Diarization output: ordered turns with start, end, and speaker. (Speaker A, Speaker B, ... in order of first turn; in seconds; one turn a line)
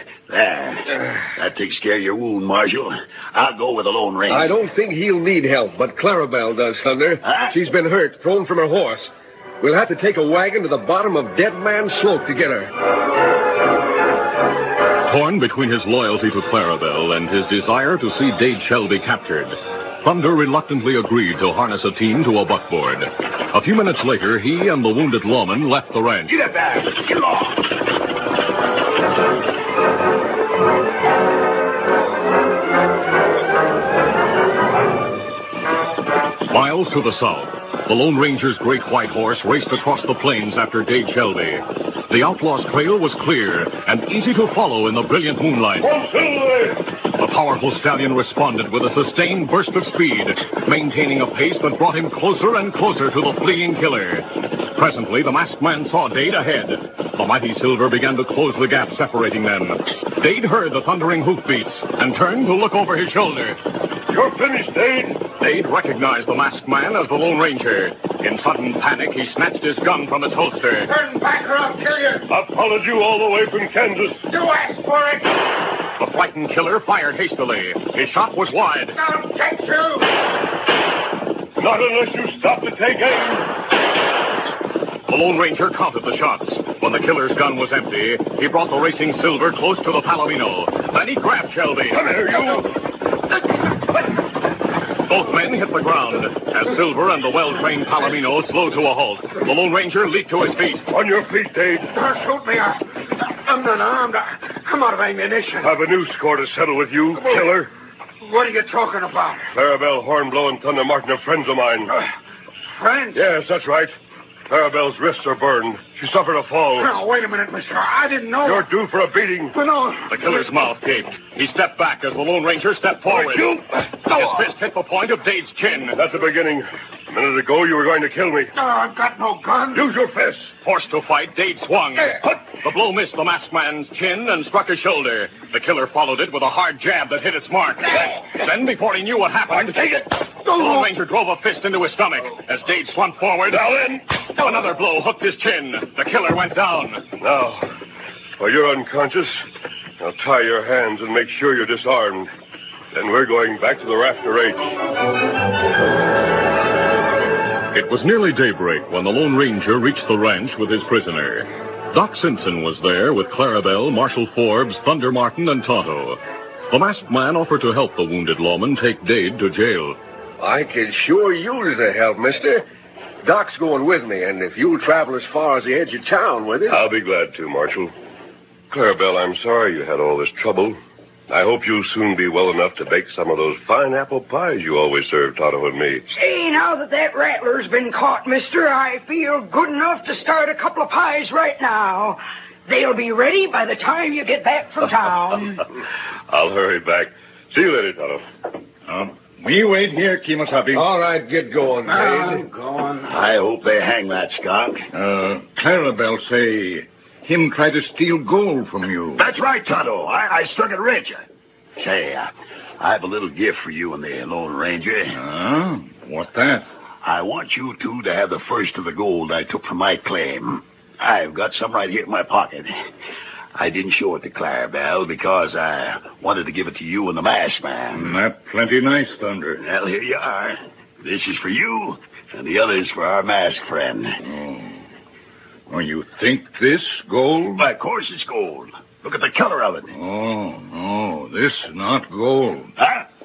Speaker A: 0.3-4.6
Speaker B: 4.3-12.7
Speaker A: 7.2-7.5
Speaker C: 15.1-26.4
Speaker A: 26.4-27.5
Speaker C: 36.5-45.9
Speaker D: 45.8-46.9
Speaker C: 47.1-63.6
Speaker D: 64.1-65.3
Speaker C: 65.4-70.9
Speaker E: 70.9-72.3
Speaker D: 72.3-74.3
Speaker E: 74.3-75.4
Speaker C: 76.0-79.0
Speaker E: 79.0-80.1
Speaker D: 81.6-83.5
Speaker C: 85.1-92.0
Speaker D: 91.9-92.7
Speaker C: 95.0-100.9
Speaker D: 100.9-101.9
Speaker E: 101.9-105.8
Speaker D: 105.6-107.7
Speaker E: 107.1-107.6
Speaker E: 108.2-109.5
Speaker D: 109.5-111.9
Speaker E: 112.8-113.3
Speaker D: 113.1-113.9
Speaker D: 114.5-116.9
Speaker E: 116.8-118.7
Speaker D: 118.4-119.6
Speaker E: 119.5-120.4
Speaker C: 120.1-126.0
Speaker D: 125.9-128.5
Speaker E: 128.6-129.8
Speaker D: 129.7-130.5
Speaker C: 130.6-147.1
Speaker D: 143.5-144.1
Speaker D: 147.2-147.6
Speaker D: 148.4-149.3
Speaker D: 150.0-152.3
Speaker D: 152.9-154.8
Speaker C: 157.7-170.0
Speaker B: 170.4-172.6
Speaker B: 173.2-176.9
Speaker D: 176.7-177.9
Speaker D: 178.7-180.8
Speaker D: 181.3-186.0
Speaker F: 186.1-195.6
Speaker D: 196.3-198.2
Speaker G: 198.9-200.9
Speaker B: 200.7-202.4
Speaker E: 201.9-203.3
Speaker A: 203.1-204.9
Speaker G: 204.9-209.3
Speaker A: 209.2-211.2
Speaker A: 211.8-215.2
Speaker G: 215.1-216.7
Speaker A: 217.0-222.7
Speaker A: 223.6-228.2
Speaker G: 227.9-229.6
Speaker A: 229.6-234.2
Speaker G: 234.2-234.8
Speaker G: 235.7-237.6
Speaker A: 237.6-239.9
Speaker G: 239.9-242.7
Speaker A: 242.8-243.1